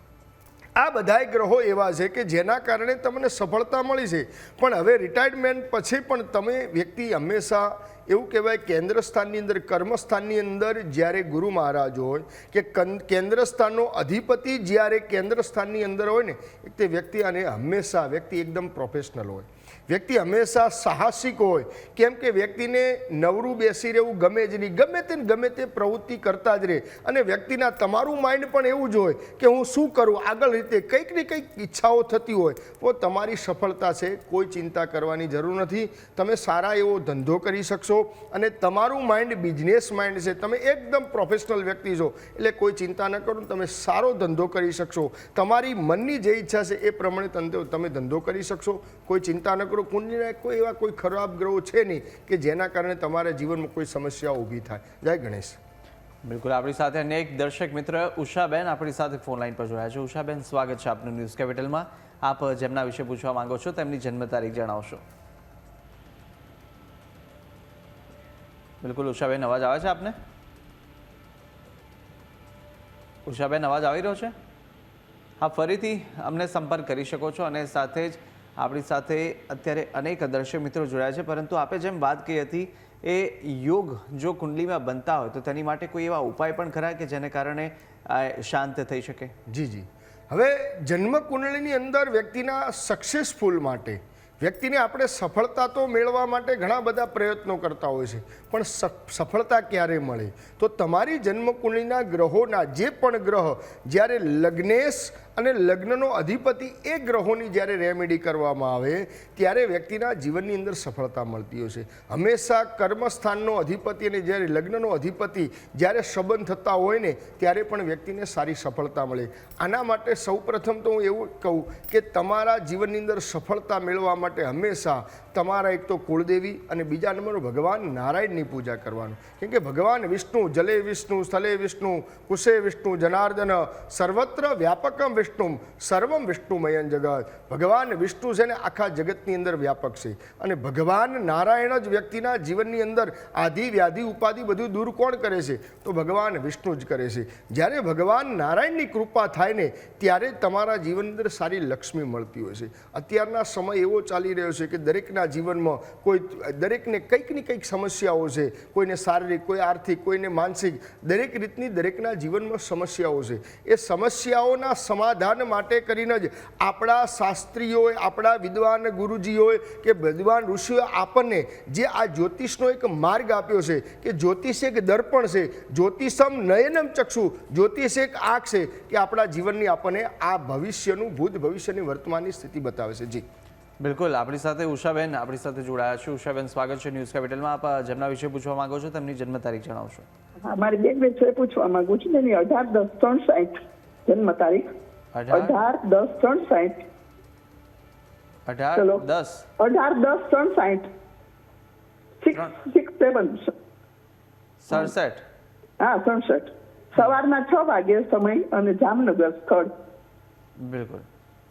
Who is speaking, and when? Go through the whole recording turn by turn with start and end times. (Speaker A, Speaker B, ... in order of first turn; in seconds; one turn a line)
Speaker A: 0.8-55.6
Speaker B: 56.2-65.0
Speaker B: 68.8-70.2
Speaker B: 73.2-74.3
Speaker B: 75.4-89.3
Speaker A: 89.5-183.2
Speaker B: 183.8-190.1
Speaker C: 190.4-194.7
Speaker B: 195.1-195.6
Speaker C: 195.3-196.8
Speaker B: 198.5-199.4
Speaker C: 198.7-199.0
Speaker C: 199.6-200.9
Speaker C: 202.2-203.5
Speaker B: 204.6-205.2
Speaker C: 205.8-209.7
Speaker B: 210.6-211.1